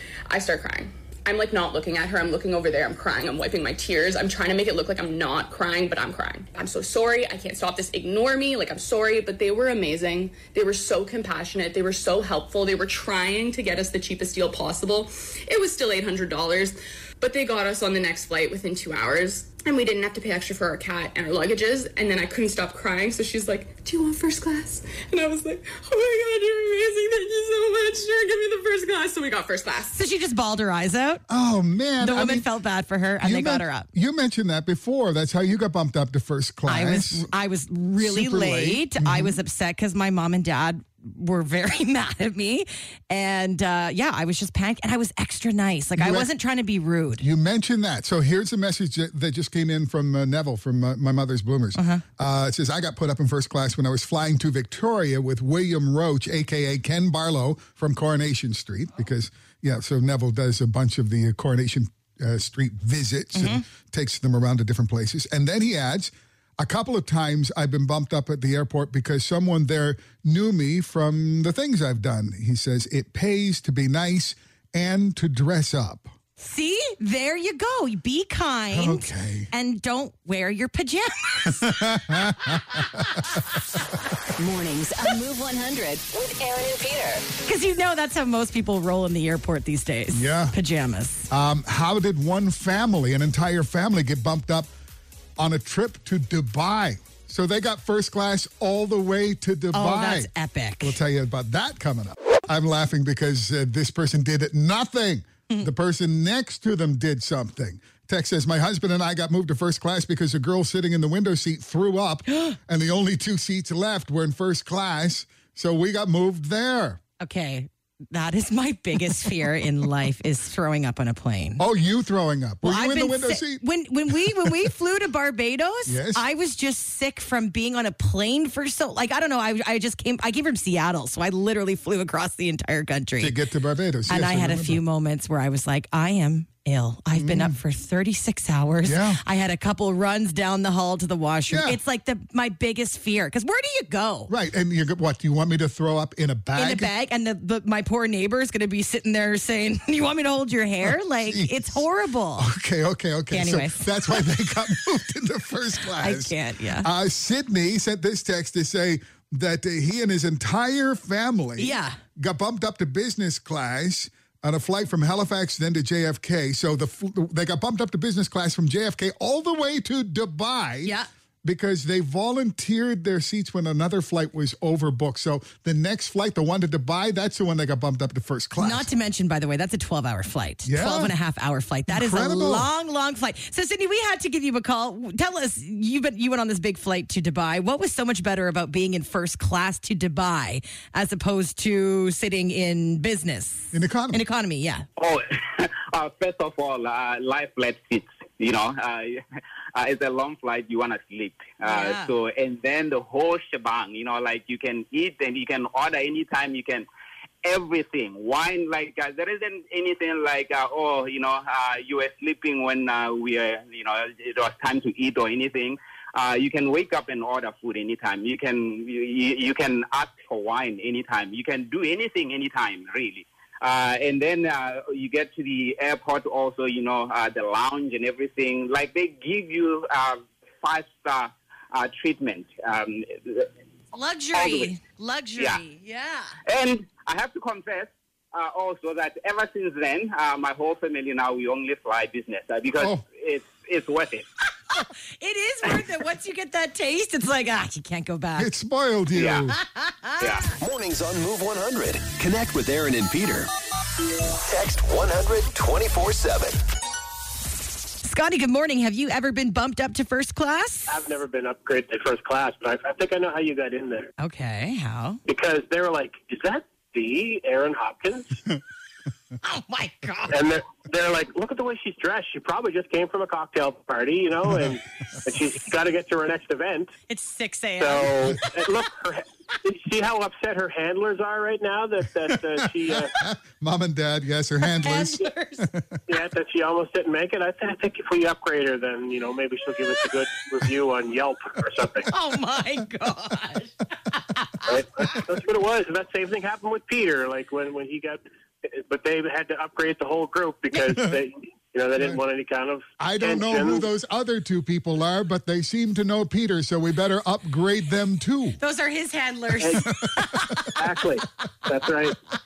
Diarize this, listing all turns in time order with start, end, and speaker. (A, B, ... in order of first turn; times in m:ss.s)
0:00.3-0:30.0 A
0:29.9-0:31.2 B
0:31.3-0:32.5 C
0:32.0-0:33.9 B
0:33.2-0:37.3 C
0:36.7-0:47.2 B
0:38.0-0:39.4 C
0:46.0-0:46.3 C
0:47.2-1:16.1 C
0:51.8-0:52.0 B
1:03.4-1:03.6 B
1:16.4-1:21.7 B
1:18.7-1:19.5 C
1:21.4-1:23.4 C
1:24.4-1:27.3 D
1:27.4-1:31.3 B
1:30.1-1:30.6 C
1:31.3-1:34.7 C
1:35.4-1:40.3 C
1:39.7-1:41.0 B
1:40.8-1:57.0 C
1:57.2-2:01.6 B
2:01.6-2:04.7 C
2:02.6-2:13.4 B
2:05.9-2:06.2 C
2:13.2-2:14.8 C
2:14.1-2:24.3 B
2:17.2-2:17.6 C
2:18.8-2:19.2 C
2:21.5-2:21.8 C
2:24.3-2:26.9 C
2:26.6-2:32.5 B
2:31.2-2:31.8 C
2:32.4-2:58.9 C
2:33.3-2:34.3 B
2:35.9-2:36.9 B
2:41.6-2:42.0 B
2:58.6-3:14.9 B
3:00.6-3:01.2 C
3:01.9-3:02.7 C
3:13.7-3:14.2 C
3:15.0-3:19.2 E
3:19.8-3:26.9 E
3:21.6-3:22.1 B
3:27.4-3:53.5 E
3:53.9-3:56.3 B
3:54.3-3:54.7 E
3:56.5-4:04.3 E
4:02.8-4:03.0 C
4:04.7-4:08.5 B
4:08.4-4:09.6 C
4:09.1-4:09.5 E
4:09.6-4:10.5 B
4:10.2-4:10.5 E
4:10.6-4:13.5 F
4:14.4-4:16.6 F
4:18.0-4:20.9 B
4:20.9-4:24.1 G
4:24.2-4:25.2 B
4:25.3-4:28.4 G
4:29.4-4:30.4 B
4:30.3-4:36.9 G
4:37.1-4:38.5 B
4:37.8-4:43.1 G
4:43.2-4:46.0 C
4:44.8-4:45.7 B
4:46.1-4:52.1 G
4:52.1-4:55.1 B
4:54.7-5:03.9 G
5:03.0-5:08.6 C
5:08.6-5:10.8 B
5:09.6-5:09.8 G
5:09.9-5:10.7 C
5:10.8-5:12.2 G